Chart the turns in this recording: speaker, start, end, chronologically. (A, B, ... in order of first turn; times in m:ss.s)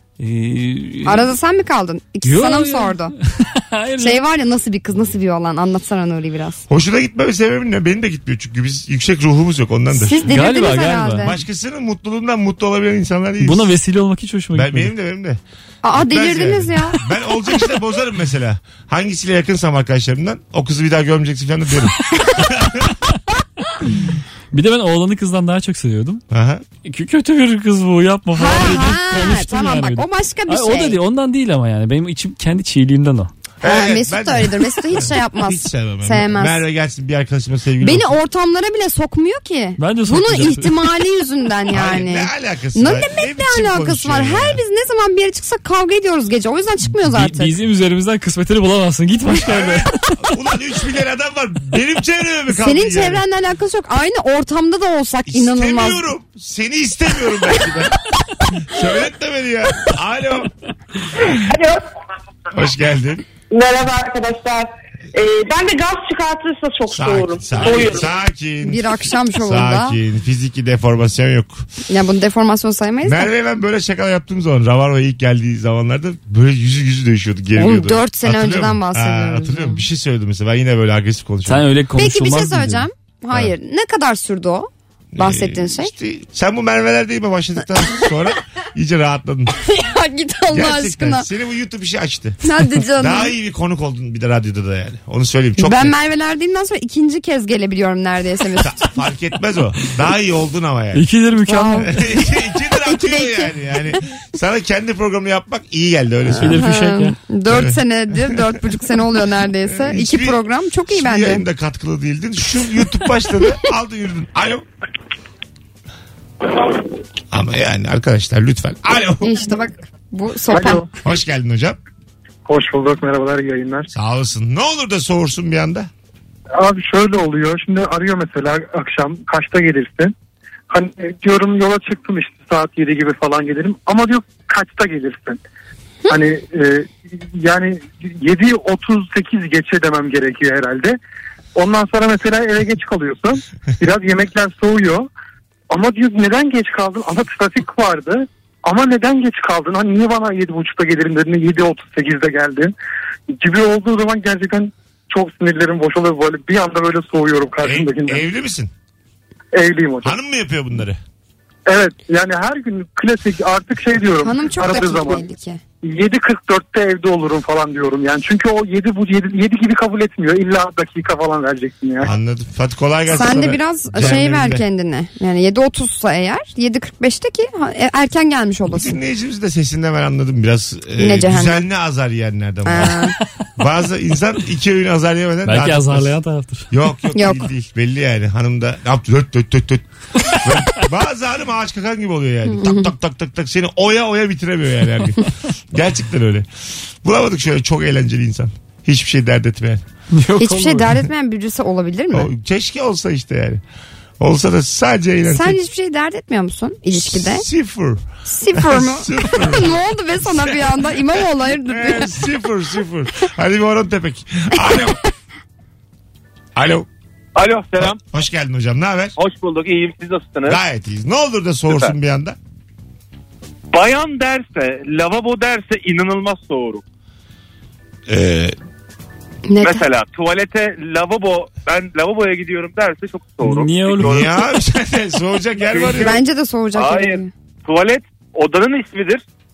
0:00.2-0:01.3 A
0:01.0-0:03.1 B
0:02.2-0:04.2 A
0:04.0-0:06.6 B
0:06.7-0:10.3 C
0:09.9-0:11.4 B
0:10.2-0:11.3 A
0:11.2-0:13.7 C
0:13.4-0:14.9 A
0:14.5-0:15.4 C
0:15.8-0:17.0 B
0:15.9-0:23.0 C
0:24.5-0:26.2 A
0:26.3-0:26.6 C
0:26.8-0:33.3 A
0:28.3-0:31.0 B
0:33.6-0:38.1 C
0:33.6-0:36.6 B
0:37.8-0:47.5 B
0:39.8-0:40.9 A
0:41.7-0:44.6 C
0:47.0-0:49.9 A
0:49.3-0:53.2 C
0:52.5-0:56.0 B
0:55.3-0:58.0 C
0:58.5-1:00.5 C
1:01.3-1:01.8 D
1:02.5-1:03.2 C
1:03.5-1:08.1 D
1:06.9-1:11.7 C
1:08.6-1:10.0 B
1:11.9-1:13.3 B
1:13.0-1:21.7 C
1:17.5-1:19.8 B
1:21.4-1:22.8 A
1:22.0-1:25.9 B
1:25.1-1:29.5 C
1:29.6-1:31.3 B
1:30.5-1:32.4 C
1:32.4-1:33.3 B
1:32.9-1:35.9 C
1:35.6-1:38.8 B
1:38.6-1:41.1 C
1:40.9-1:41.9 A
1:41.5-1:43.5 B
1:41.7-1:46.7 C
1:46.3-1:51.4 B
1:46.4-1:47.2 A
1:47.5-1:48.4 C
1:49.6-1:54.6 C
1:57.3-1:59.4 C
1:59.2-2:00.8 B
2:00.5-2:00.9 E
2:01.0-2:01.8 C
2:02.4-2:03.9 E
2:03.9-2:05.9 C
2:06.6-2:10.1 E
2:10.7-2:15.4 E
2:16.1-2:21.0 E
2:21.5-2:25.1 E
2:25.7-2:32.7 E
2:33.3-2:38.2 E
2:37.6-2:38.7 C
2:39.5-2:40.2 E
2:40.0-2:41.0 C
2:41.7-2:45.2 E
2:44.2-2:45.6 B
2:45.8-2:52.1 E
2:52.0-2:54.6 C
2:53.1-2:59.0 B
2:58.7-3:03.0 C
3:01.0-3:01.6 B
3:02.6-3:03.2 B
3:03.6-3:06.1 C
3:05.4-3:06.7 A
3:06.7-3:16.5 C
3:07.1-3:07.4 B
3:12.5-3:12.9 B
3:17.0-3:19.8 C
3:20.1-3:21.0 A
3:20.4-3:22.3 B
3:22.1-3:23.6 C
3:24.2-3:25.6 C
3:25.2-3:27.4 B
3:26.9-3:35.0 C
3:28.2-3:32.1 B
3:36.6-3:36.9 C
3:37.3-3:38.0 F
3:37.8-3:39.2 C
3:39.2-3:40.6 F
3:40.4-3:42.4 C
3:43.7-3:46.8 F
3:48.1-3:48.6 C
3:49.5-3:49.8 B
3:49.6-3:54.4 F
3:53.4-3:54.3 A
3:54.0-3:56.2 C
3:55.6-3:56.2 F
3:55.9-3:57.3 B
3:56.7-3:59.2 F